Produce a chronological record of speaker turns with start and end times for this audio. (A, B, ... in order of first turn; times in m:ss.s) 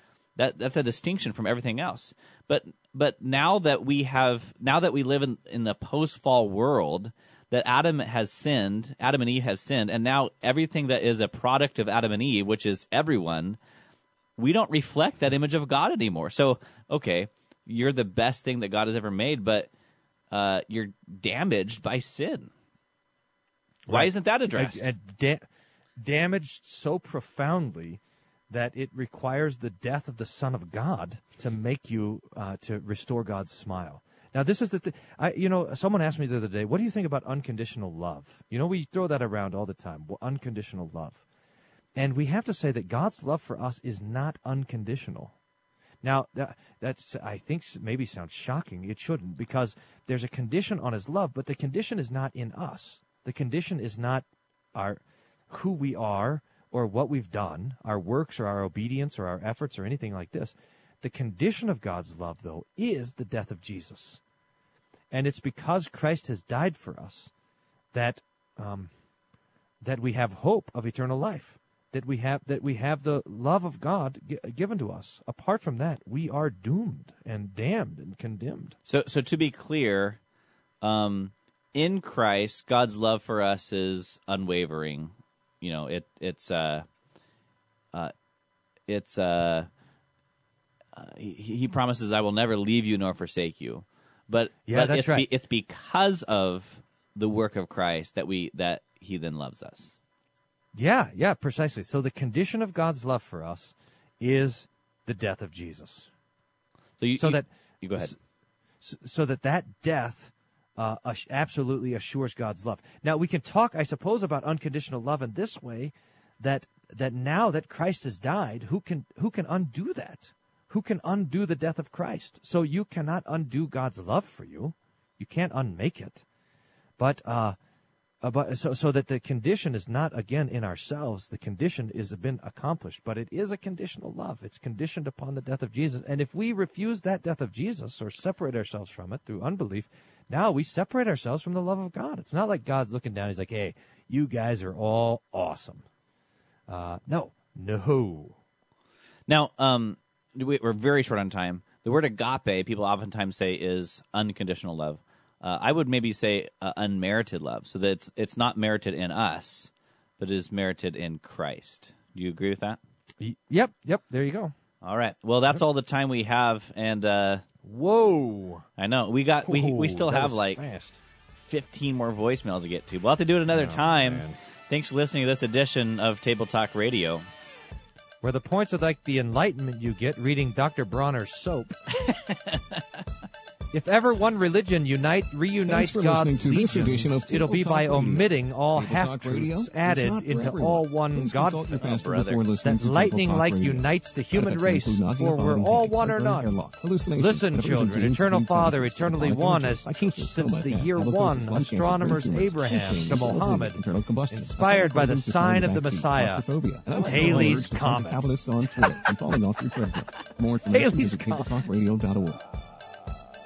0:00.4-0:13.6 A
0:14.4-0:19.7 A
0:20.3-0:22.5 A
0:23.9-0:25.4 B
0:23.9-0:24.9 A
0:26.0-0:41.2 B
0:42.0-0:45.4 B
0:46.0-1:04.2 B
1:05.1-1:07.3 B
1:07.9-1:08.9 B
1:09.8-1:18.8 B
1:18.8-1:20.2 A
1:20.8-1:26.9 A
1:28.9-1:29.7 A
1:31.0-1:40.0 A
1:34.7-1:35.3 B
1:40.7-1:46.1 B
1:47.0-1:48.2 A
1:47.2-1:48.2 B
1:48.8-2:06.2 B
2:07.0-2:07.6 B
2:08.2-2:25.9 B
2:26.7-2:28.4 B
2:29.3-2:42.8 A
2:43.2-2:44.6 B
2:44.8-2:47.4 A
2:47.6-2:48.6 B
2:48.8-2:50.6 A
2:49.4-2:51.0 B
2:51.4-2:57.3 A
2:53.5-2:54.4 B
2:58.2-3:01.8 B
3:02.1-3:02.6 A
3:03.7-3:12.0 B
3:05.6-3:32.4 C
3:11.8-3:12.4 A
3:12.6-3:28.9 B
3:30.7-3:31.5 B